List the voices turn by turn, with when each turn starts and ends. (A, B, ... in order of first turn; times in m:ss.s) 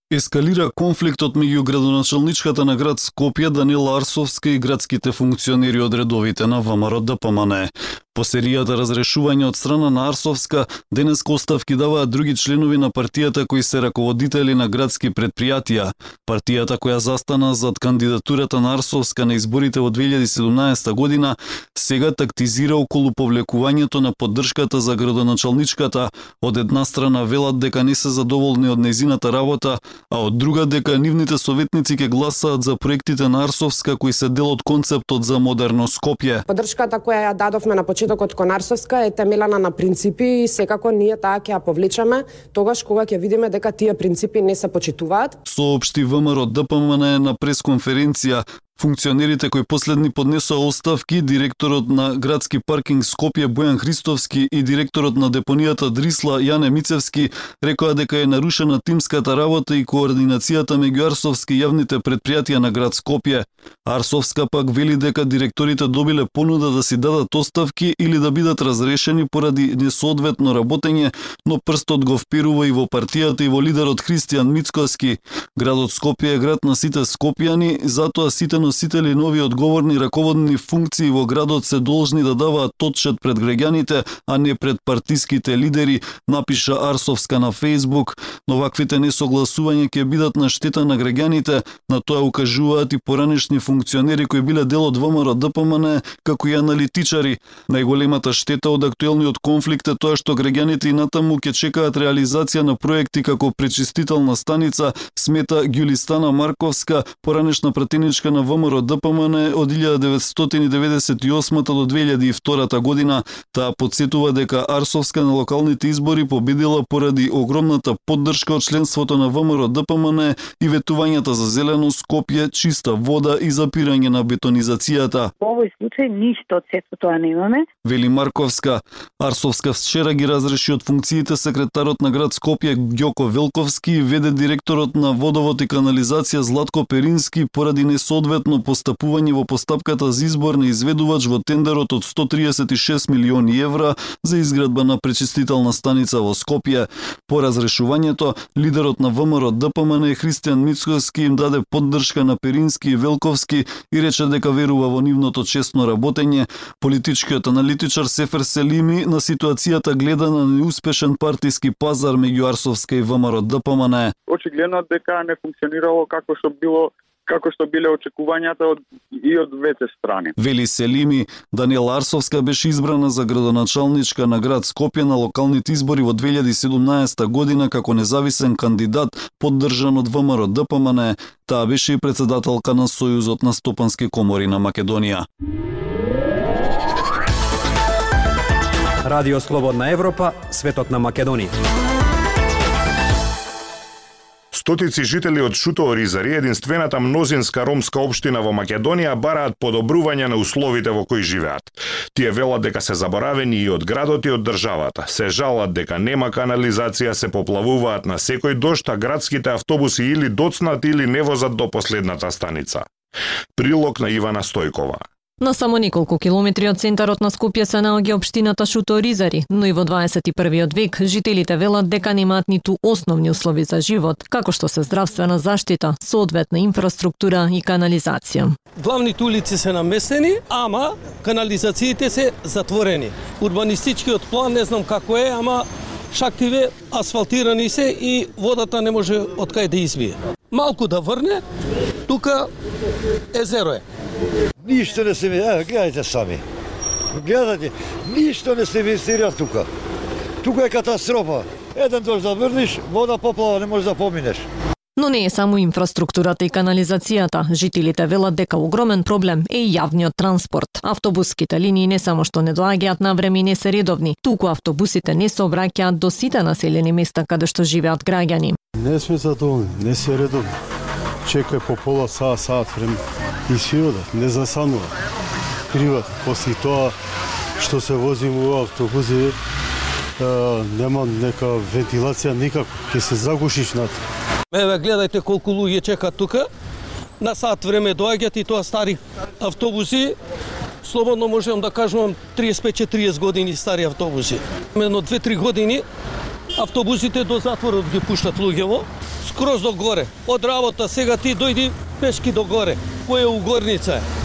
0:00.1-0:36.4 A
0:36.5-0:45.4 B
0:45.4-2:05.3 A
2:05.4-2:07.6 C
2:07.8-2:44.1 A
2:44.3-2:50.3 D
2:50.4-3:05.2 A
3:09.1-3:11.5 E
3:14.5-3:32.8 F
3:33.5-3:35.0 F
3:35.4-3:48.5 G
3:48.8-4:01.4 H
4:02.1-4:02.5 H
4:03.3-4:03.8 H
4:04.6-4:06.4 I
4:07.1-4:09.7 I
4:10.4-4:14.4 I
4:15.0-4:28.6 G
4:28.8-4:30.5 J
4:31.2-4:34.9 J
4:35.7-4:36.9 J
4:37.6-4:39.4 J
4:40.2-4:44.0 J
4:44.5-4:46.5 H
4:47.2-4:50.2 H
4:50.8-4:55.8 H
4:56.6-5:04.0 H